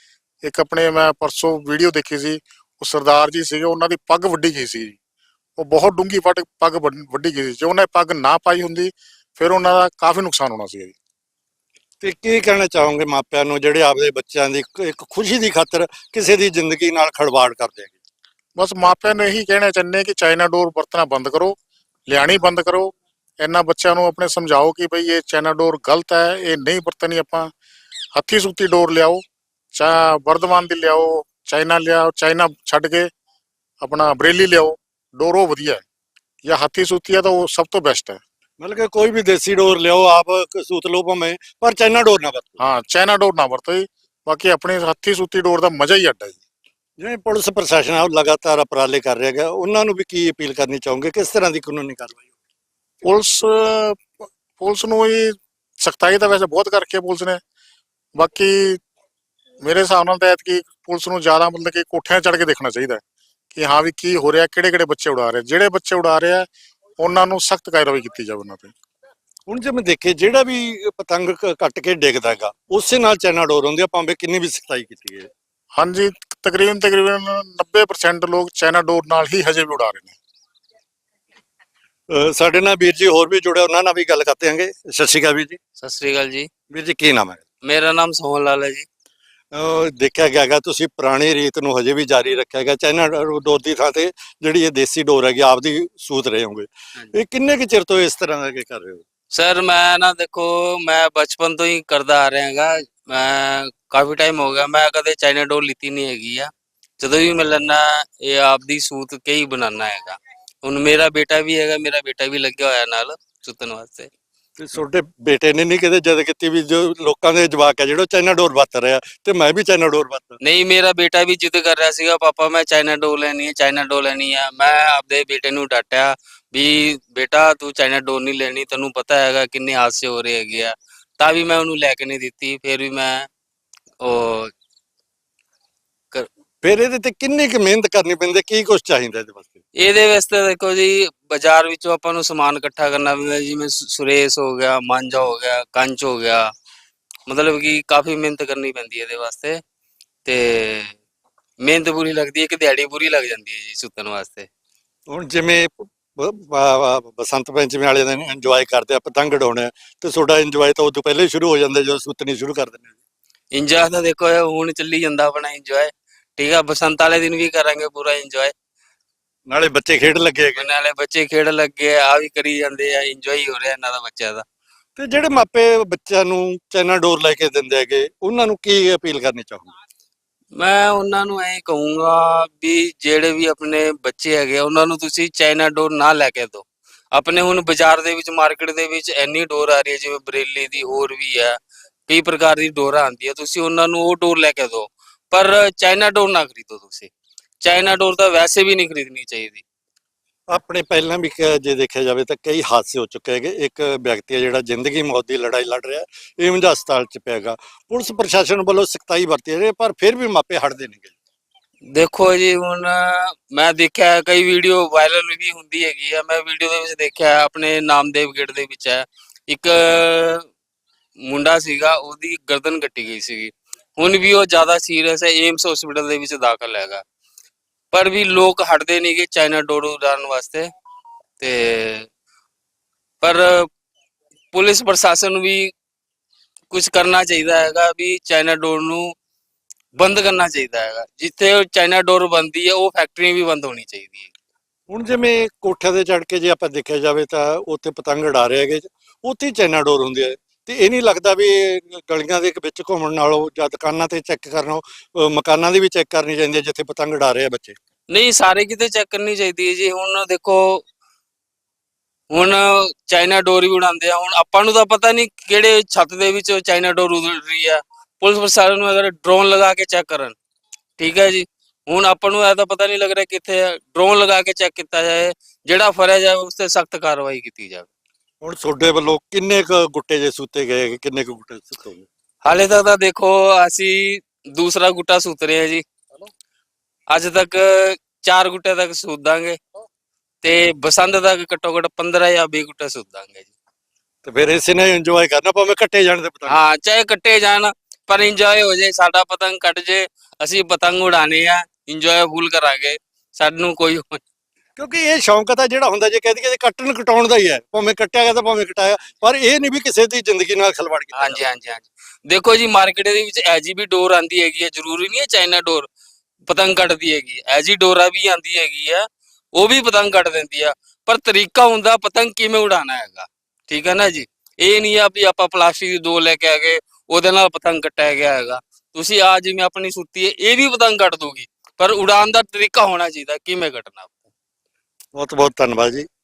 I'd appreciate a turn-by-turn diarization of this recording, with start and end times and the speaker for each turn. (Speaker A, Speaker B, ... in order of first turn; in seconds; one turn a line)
Speaker A: 0.4-5.0
Speaker A: 5.6-10.9
Speaker B: 12.0-17.9
Speaker A: 18.6-21.6
Speaker A: 22.1-27.5
Speaker A: 28.1-29.2
Speaker A: 29.7-33.1
Speaker A: 33.8-35.8
Speaker A: 36.5-38.2
Speaker B: 38.6-42.6
Speaker A: 42.6-46.4
Speaker B: 47.0-52.2
Speaker A: 53.1-57.4
Speaker A: 58.1-58.8
Speaker A: 59.6-66.5
Speaker A: 67.0-68.7
Speaker B: 69.5-75.3
Speaker A: 75.8-80.1
Speaker B: 82.1-85.6
Speaker C: 85.8-86.5
Speaker B: 86.7-87.4
Speaker C: 87.7-88.8
Speaker B: 89.5-99.0
Speaker C: 99.3-114.1
Speaker B: 114.6-120.4
Speaker C: 120.4-133.3
Speaker C: 134.0-134.5
Speaker B: 136.6-139.6
Speaker C: 139.8-146.4
Speaker C: 147.3-149.6
Speaker C: 150.2-150.9
Speaker C: 151.6-154.5
Speaker B: 155.1-163.0
Speaker C: 163.5-168.5
Speaker B: 169.5-170.6
Speaker C: 170.6-174.4
Speaker B: 174.9-179.7
Speaker C: 180.6-191.6
Speaker C: 192.1-197.1
Speaker C: 197.6-199.6
Speaker B: 200.5-211.1
Speaker C: 211.9-220.4
Speaker C: 221.2-227.0
Speaker C: 227.9-230.7
Speaker C: 231.4-232.1
Speaker C: 233.2-233.7
Speaker C: 234.5-235.7
Speaker C: 236.7-239.1
Speaker C: 240.0-244.3
Speaker B: 244.9-257.8
Speaker C: 258.1-260.8
Speaker C: 262.3-270.3
Speaker C: 271.0-277.9
Speaker B: 278.4-282.1
Speaker C: 282.4-285.8
Speaker C: 287.1-289.6
Speaker C: 290.4-293.5
Speaker B: 294.2-296.6
Speaker C: 296.5-304.2
Speaker B: 304.8-311.4
Speaker C: 311.2-315.9
Speaker C: 316.4-319.0
Speaker C: 319.6-334.2
Speaker B: 335.2-336.1